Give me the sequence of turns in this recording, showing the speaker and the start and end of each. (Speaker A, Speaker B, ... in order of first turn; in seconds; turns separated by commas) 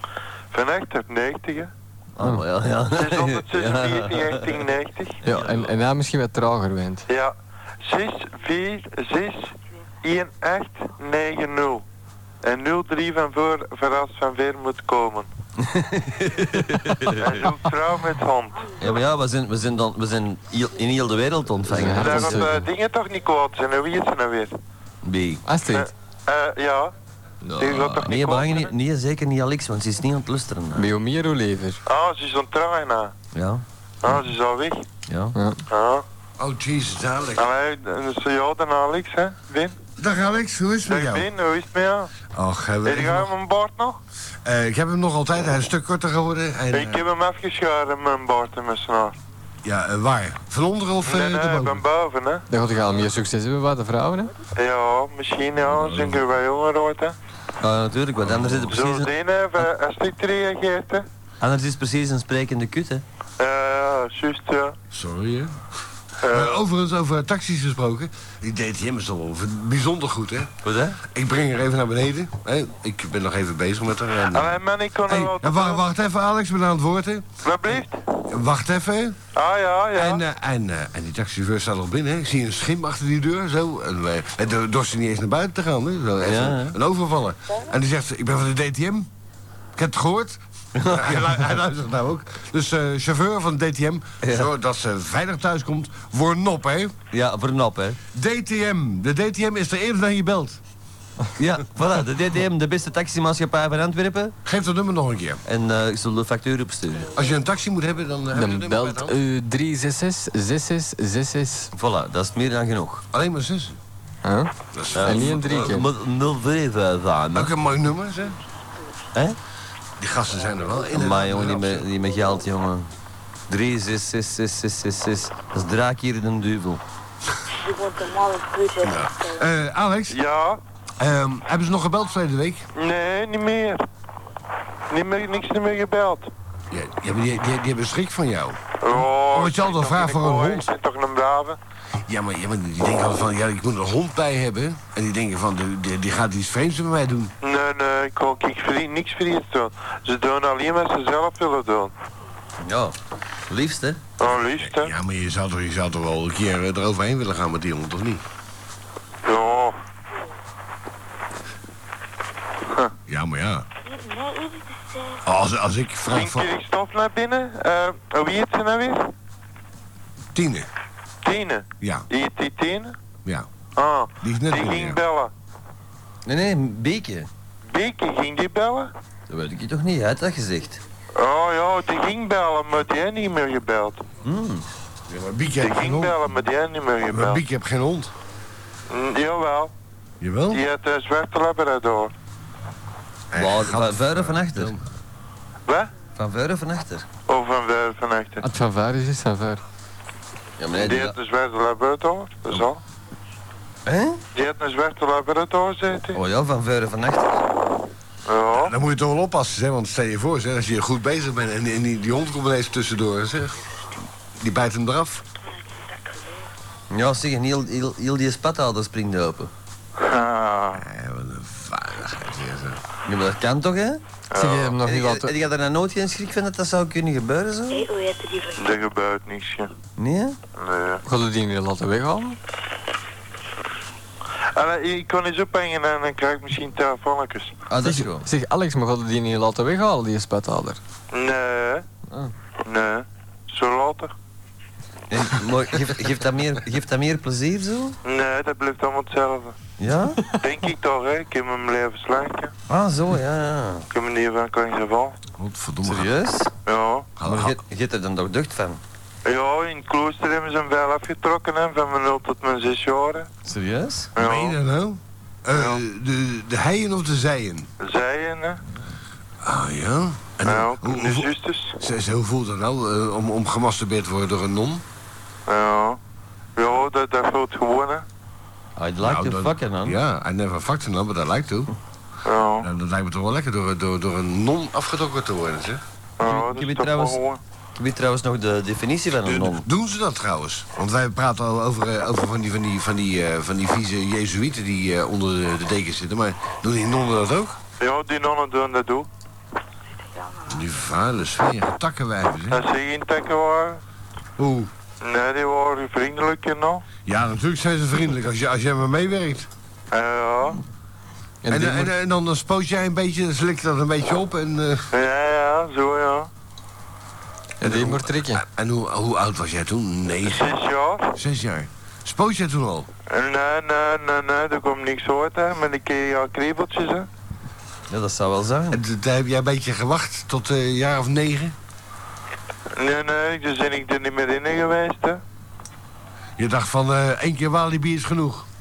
Speaker A: 0.5-1.7, Speaker B: 2.2-4.7, Speaker A: 2.9-5.2, Speaker C: 5.2-7.0, Speaker B: 5.3-5.6, Speaker A: 7.1-11.8, Speaker A: 12.4-15.3, Speaker B: 15.6-17.5, Speaker A: 17.2-18.7, Speaker B: 18.8-22.4, Speaker C: 21.6-22.7, Speaker A: 21.9-24.6, Speaker B: 25.0-25.4, Speaker C: 25.4-25.9, Speaker A: 25.7-26.9, Speaker A: 27.6-28.7, Speaker B: 27.6-30.9, Speaker C: 30.8-31.8, Speaker A: 31.9-33.1, Speaker B: 33.3-33.6, Speaker A: 34.0-34.9, Speaker B: 35.1-35.4, Speaker C: 35.4-35.6, Speaker A: 35.7-36.0, Speaker D: 36.4-37.5, Speaker A: 37.4-39.8, Speaker D: 40.0-41.3, Speaker A: 40.9-42.1, Speaker D: 42.3-43.3, Speaker A: 42.8-44.0, Speaker D: 44.5-47.0, Speaker A: 46.7-49.1, Speaker D: 49.6-51.8, Speaker A: 51.0-52.5, Speaker C: 52.5-54.3, Speaker A: 54.6-57.1, Speaker D: 55.7-56.2, Speaker B: 57.6-59.1, Speaker D: 58.2-58.7, Speaker A: 58.7-61.1, Speaker B: 61.4-63.0, Speaker A: 63.4-64.8, Speaker D: 64.9-65.5, Speaker A: 66.2-66.6, Speaker D: 66.2-70.5, Speaker B: 70.6-71.0, Speaker D: 71.0-74.6, Speaker A: 74.3-75.8, Speaker D: 75.1-77.3, Speaker A: 77.4-78.0, Speaker D: 78.3-79.2, Speaker A: 79.3-80.2, Speaker D: 80.0-89.1, Speaker B: 86.2-86.8, Speaker D: 89.8-97.0, Speaker B: 90.8-91.3, Speaker B: 94.2-94.5, Speaker B: 97.1-98.0, Speaker D: 98.1-100.6, Speaker B: 101.4-104.3, Speaker D: 104.5-105.4, Speaker B: 105.5-107.1, Speaker D: 107.1-109.2, Speaker C: 108.3-111.7, Speaker B: 111.8-113.0, Speaker D: 113.1-113.8, Speaker C: 114.2-115.9, Speaker D: 114.7-115.8, Speaker B: 115.0-117.5, Speaker D: 117.3-118.4, Speaker D: 120.0-121.9, Speaker B: 120.9-122.9, Speaker B: 123.5-126.8, Speaker E: 127.5-129.5, Speaker D: 128.8-130.2, Speaker A: 130.1-130.6, Speaker D: 131.0-132.7, Speaker A: 132.8-133.8, Speaker A: 134.9-136.3, Speaker D: 136.7-140.7, Speaker A: 138.8-141.6, Speaker D: 142.1-147.3, Speaker A: 147.4-151.9, Speaker B: 152.6-152.9, Speaker B: 153.5-154.0, Speaker A: 154.2-154.9, Speaker D: 154.3-158.2, Speaker A: 159.2-159.8, Speaker A: 162.7-162.9, Speaker D: 163.1-163.7, Speaker E: 163.8-165.2, Speaker D: 165.2-166.5, Speaker A: 166.1-169.1, Speaker D: 170.3-170.7, Speaker A: 171.2-173.0, Speaker D: 171.8-172.1, Speaker A: 173.8-175.3, Speaker D: 174.2-175.0, Speaker B: 176.3-177.3, Speaker A: 177.7-178.9, Speaker B: 179.3-180.8, Speaker A: 181.2-184.0, Speaker B: 184.2-184.7, Speaker D: 185.1-186.3, Speaker A: 185.6-187.4, Speaker D: 187.1-188.1, Speaker A: 188.9-189.7, Speaker D: 190.2-190.6, Speaker A: 190.5-192.1, Speaker D: 193.3-194.8, Speaker B: 193.3-194.7, Speaker B: 196.2-197.1, Speaker A: 197.3-198.5, Speaker C: 198.4-199.6, Speaker B: 200.6-201.2, Speaker A: 200.8-202.8, Speaker B: 203.9-204.2, Speaker A: 204.3-206.2, Speaker B: 206.2-207.4, Speaker A: 208.3-208.7, Speaker D: 208.5-213.7, Speaker D: 214.4-215.2, Speaker E: 215.8-216.4, Speaker B: 216.9-219.5, Speaker A: 220.0-220.8, Speaker D: 220.7-222.8, Speaker B: 223.1-224.0, Speaker A: 224.3-224.8, Speaker C: 224.3-225.3, Speaker B: 224.8-227.8, Speaker E: 227.7-228.6, Speaker A: 228.6-229.7, Speaker B: 230.0-230.4, Speaker A: 230.6-231.0, Speaker C: 231.1-232.4, Speaker A: 234.6-237.6, Speaker B: 237.7-238.3, Speaker C: 237.8-240.8, Speaker A: 241.1-241.8, Speaker A: 242.7-244.1, Speaker B: 245.1-248.0, Speaker A: 248.0-249.6, Speaker B: 249.8-250.2, Speaker A: 250.4-252.5, Speaker B: 252.7-253.9, Speaker A: 253.9-255.2, Speaker D: 255.4-256.1, Speaker B: 255.8-256.5, Speaker A: 256.7-257.1, Speaker D: 257.2-257.6, Speaker B: 257.2-258.8, Speaker A: 259.3-263.3, Speaker B: 263.5-264.1, Speaker A: 264.2-264.6, Speaker D: 264.2-267.7, Speaker A: 265.5-265.8, Speaker A: 267.8-268.6, Speaker D: 269.4-274.8, Speaker A: 270.4-271.8, Speaker A: 275.5-276.0, Speaker A: 276.6-278.1, Speaker B: 278.8-280.0, Speaker D: 279.0-281.7, Speaker A: 282.2-282.7, Speaker D: 282.6-285.8, Speaker A: 286.2-287.4, Speaker B: 286.2-287.2, Speaker B: 287.8-289.7, Speaker D: 289.2-297.6, Speaker A: 297.8-299.1, Speaker E: 300.0-300.6, Speaker D: 300.5-302.6, Speaker A: 302.5-303.8, Speaker D: 304.4-304.7, Speaker A: 305.0-306.9, Speaker D: 307.1-309.5, Speaker A: 309.9-310.6, Speaker C: 311.4-311.9, Speaker D: 311.5-314.9, Speaker A: 314.9-316.3, Speaker C: 317.6-318.4, Speaker D: 317.6-320.6, Speaker A: 320.3-321.1, Speaker D: 321.1-322.9, Speaker A: 323.1-327.1, Speaker B: 327.9-328.8, Speaker D: 328.7-331.6, Speaker A: 332.8-335.2, Speaker D: 336.4-338.5